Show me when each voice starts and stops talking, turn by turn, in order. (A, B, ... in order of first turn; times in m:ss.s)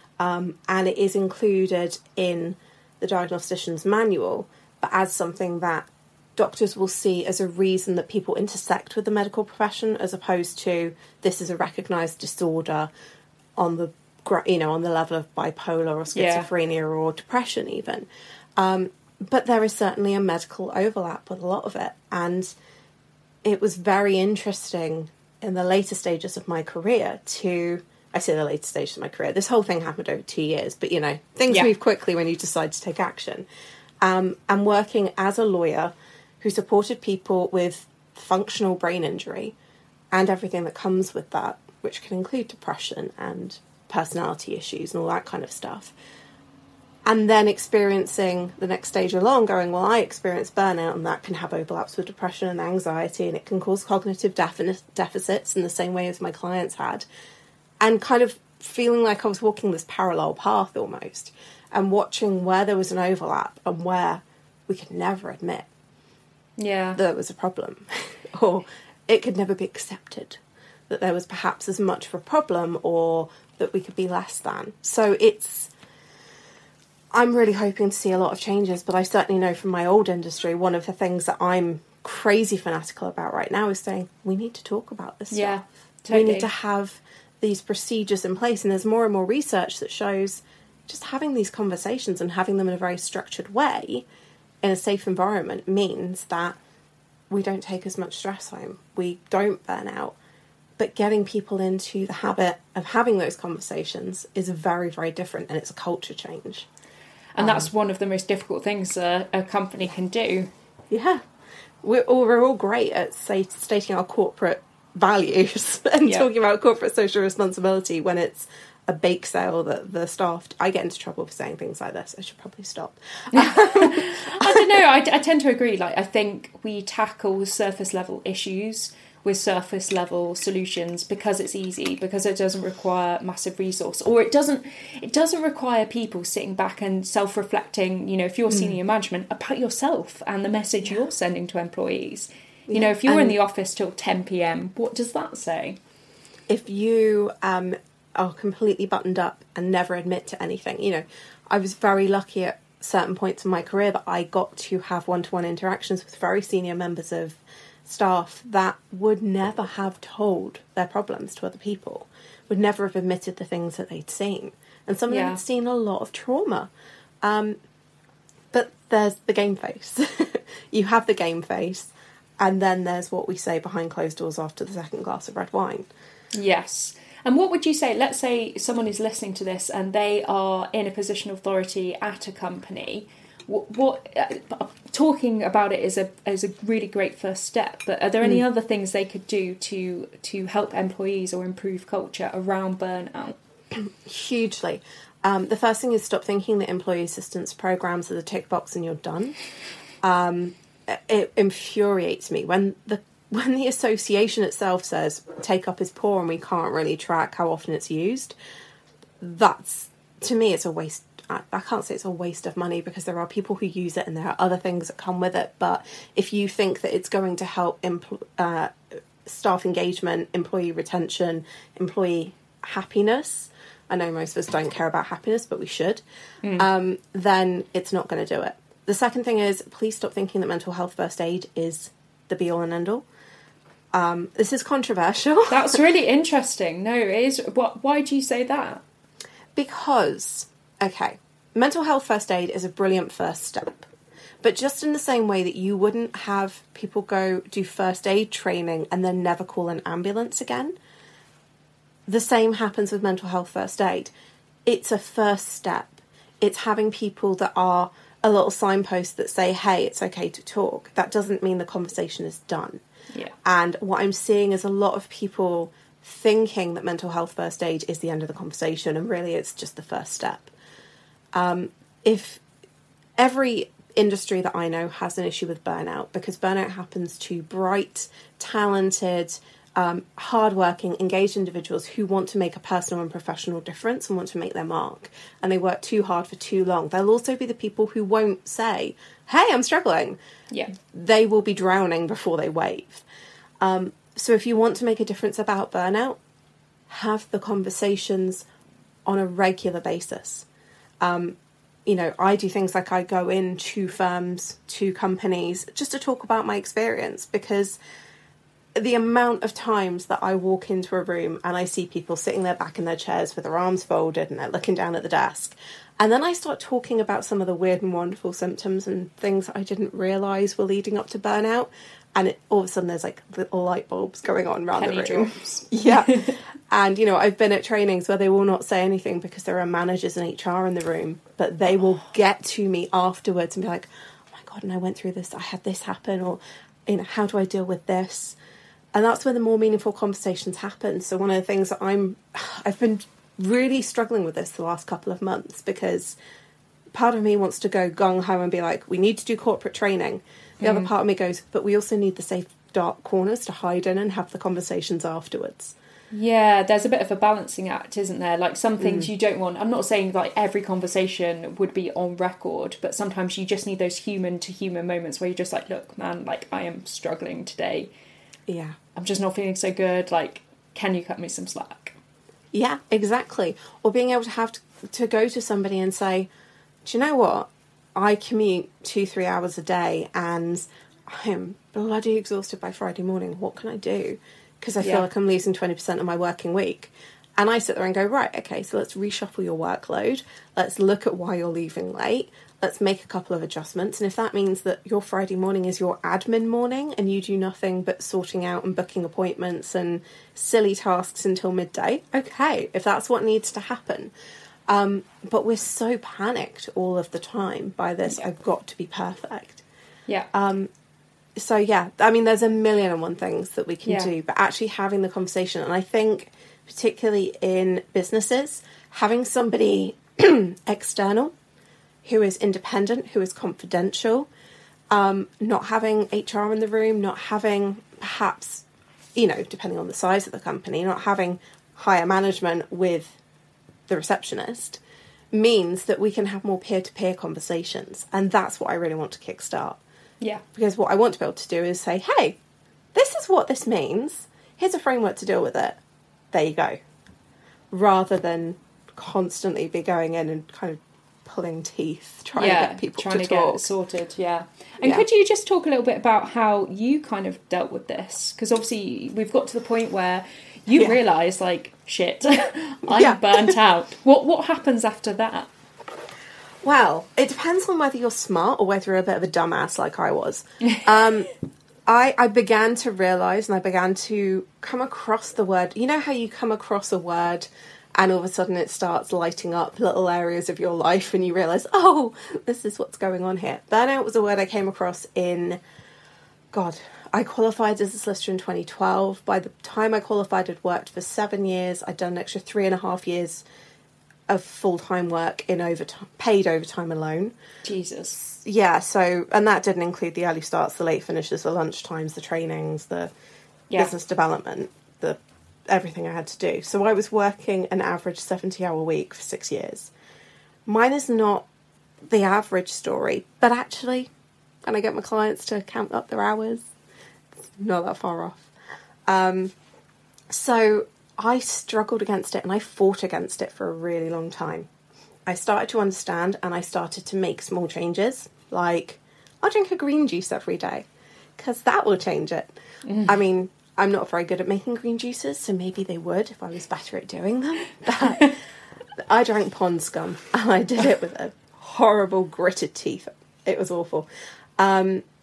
0:00.2-0:12.9 A
0:13.6-0:22.5 A
0:16.1-0:16.5 B
0:23.4-0:33.4 A
0:34.0-0:39.5 A
0:40.1-0:45.9 A
0:47.0-0:57.0 A
0:57.8-1:05.7 A
1:06.6-1:07.0 B
1:07.0-1:15.7 A
1:17.1-1:34.0 A
1:25.3-1:26.5 B
1:34.6-1:36.6 A
1:37.3-1:40.2 A
1:40.8-1:46.7 A
1:47.4-1:50.5 B
1:47.4-1:47.7 A
1:50.9-1:51.2 A
1:51.8-2:04.7 A
2:03.3-2:25.8 B
2:18.5-2:18.8 A
2:22.7-2:23.4 A
2:26.5-2:46.7 A
2:45.1-2:45.4 B
2:47.2-2:47.6 A
2:48.5-2:55.9 A
2:56.3-3:13.4 B
3:13.7-3:19.4 A
3:20.0-3:28.3 A
3:29.2-3:46.0 A
3:46.4-3:46.7 B
3:46.6-3:53.0 A
3:53.9-3:55.8 A
3:55.5-3:58.8 B
3:59.6-4:03.9 A
4:04.4-4:10.8 A
4:12.1-4:14.1 A
4:14.6-4:22.8 A
4:23.4-4:30.5 A
4:31.3-4:32.4 A
4:33.2-4:50.2 A
4:50.7-4:53.0 A
4:53.6-4:56.2 A
4:56.9-4:58.4 A
4:59.0-5:00.4 A
5:01.0-5:07.8 A
5:08.8-5:38.4 A
5:24.7-5:26.3 B
5:38.9-5:46.2 A
5:46.9-5:55.7 A
5:50.6-5:50.9 B
5:56.1-6:07.9 B
5:58.8-5:59.1 A
6:08.5-6:08.8 A
6:08.9-6:12.0 B
6:12.5-6:16.3 A
6:16.8-6:44.1 A
6:24.8-6:25.1 B
6:44.7-6:49.6 A
6:50.3-6:50.7 A
6:51.4-7:01.3 A
6:53.8-6:54.1 B
7:02.0-7:04.3 A
7:04.9-7:08.6 A
7:09.2-7:13.2 A
7:13.9-7:14.8 A
7:15.3-7:19.8 A
7:20.5-7:22.4 A
7:22.9-7:25.8 A
7:26.3-7:26.8 A
7:27.7-7:33.6 A
7:32.4-7:45.5 B
7:40.7-7:41.0 A
7:42.9-7:43.5 A
7:46.6-7:51.3 A
7:51.8-8:05.6 A
8:06.5-8:13.4 A
8:14.3-8:17.3 A
8:17.6-8:18.2 B
8:18.2-8:23.1 A
8:23.7-8:29.9 A
8:30.6-8:31.5 A
8:32.1-8:34.1 A
8:34.6-8:36.7 A
8:37.5-8:38.5 A
8:39.1-8:39.5 A
8:40.3-8:44.7 A
8:45.2-8:50.8 A
8:51.4-8:52.5 A
8:52.8-8:53.1 B
8:53.0-8:58.4 A
8:59.0-9:04.1 A
9:04.6-9:05.0 A